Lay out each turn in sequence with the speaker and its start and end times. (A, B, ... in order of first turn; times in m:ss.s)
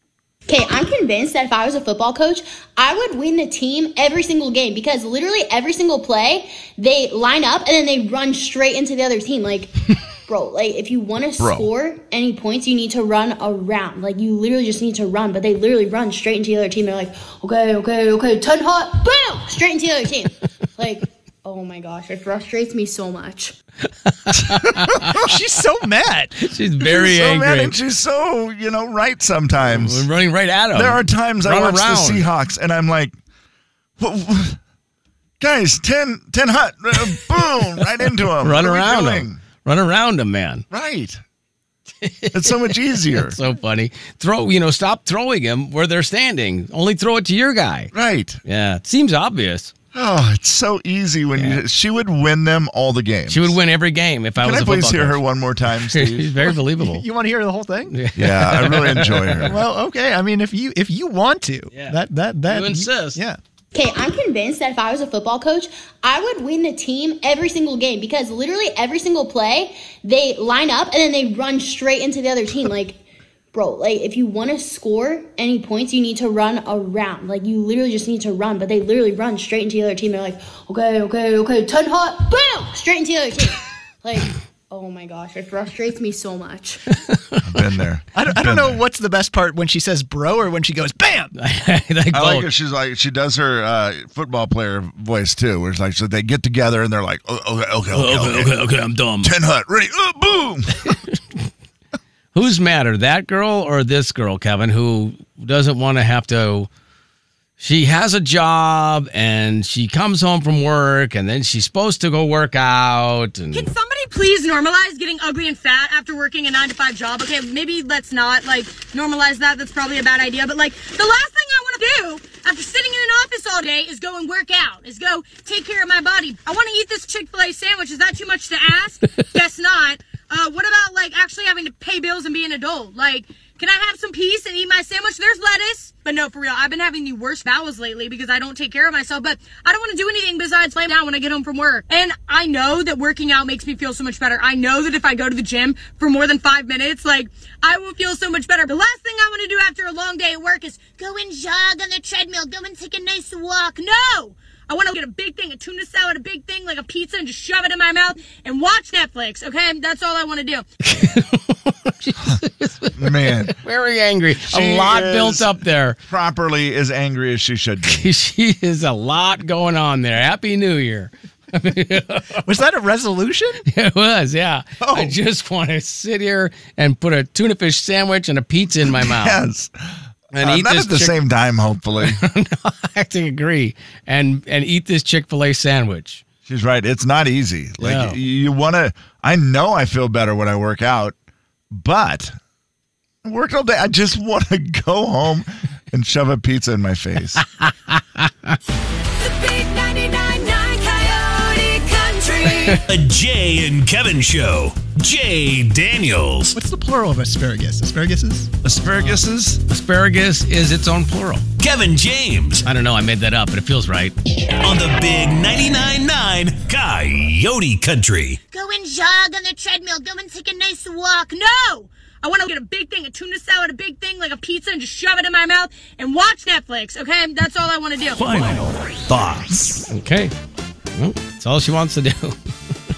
0:00.5-0:23.6 A
0:11.4-0:11.7 B
0:24.1-0:25.2 C
0:25.0-0:26.4 D
0:26.4-0:27.8 C
0:26.8-0:30.1 B
0:29.6-0:32.3 C
0:30.7-0:33.2 B
0:34.0-0:34.6 B
0:35.4-0:39.4 B
0:38.4-0:40.6 C
0:40.7-0:41.2 B
0:42.0-0:47.9 C
0:42.3-0:43.4 B
0:47.9-0:48.4 B
0:48.4-0:49.7 C
0:49.9-0:53.6 B
0:51.4-0:51.6 C
0:53.3-0:55.2 C
0:54.4-0:56.3 B
0:55.8-0:57.0 C
0:56.8-0:58.0 D
0:57.9-0:59.5 C
0:58.2-0:59.6 B
0:59.4-1:03.4 D
1:01.7-1:03.2 C
1:03.7-1:13.0 A
1:13.5-1:26.8 A
1:27.1-1:27.4 C
1:27.4-1:28.8 B
1:28.2-1:31.3 D
1:31.4-1:32.5 C
1:32.1-1:38.6 B
1:37.9-1:39.3 C
1:39.2-1:41.0 B
1:40.9-1:41.2 C
1:42.3-1:46.7 C
1:47.6-1:53.7 C
1:53.5-2:40.6 E
2:40.8-2:46.0 C
2:43.0-2:43.6 B
2:44.4-2:48.1 B
2:47.9-2:52.5 C
2:52.4-2:53.6 D
2:53.7-2:59.4 C
2:54.8-2:55.2 D
2:58.9-2:59.7 B
3:00.3-3:01.2 C
3:00.4-3:02.2 B
3:02.0-3:06.2 C
3:06.5-3:11.2 B
3:07.8-3:08.2 C
3:11.7-3:12.4 B
3:13.2-3:17.4 B
3:17.4-3:18.6 C
3:19.2-3:22.8 F
3:22.8-3:26.6 G
3:26.5-3:28.5 D
3:28.6-3:29.6 B
3:28.9-3:31.4 C
3:31.6-3:32.6 G
3:32.6-3:34.1 C
3:34.6-3:38.4 G
3:38.5-3:48.3 E
3:48.2-3:49.9 G
3:49.9-3:50.3 C
3:51.0-3:52.4 C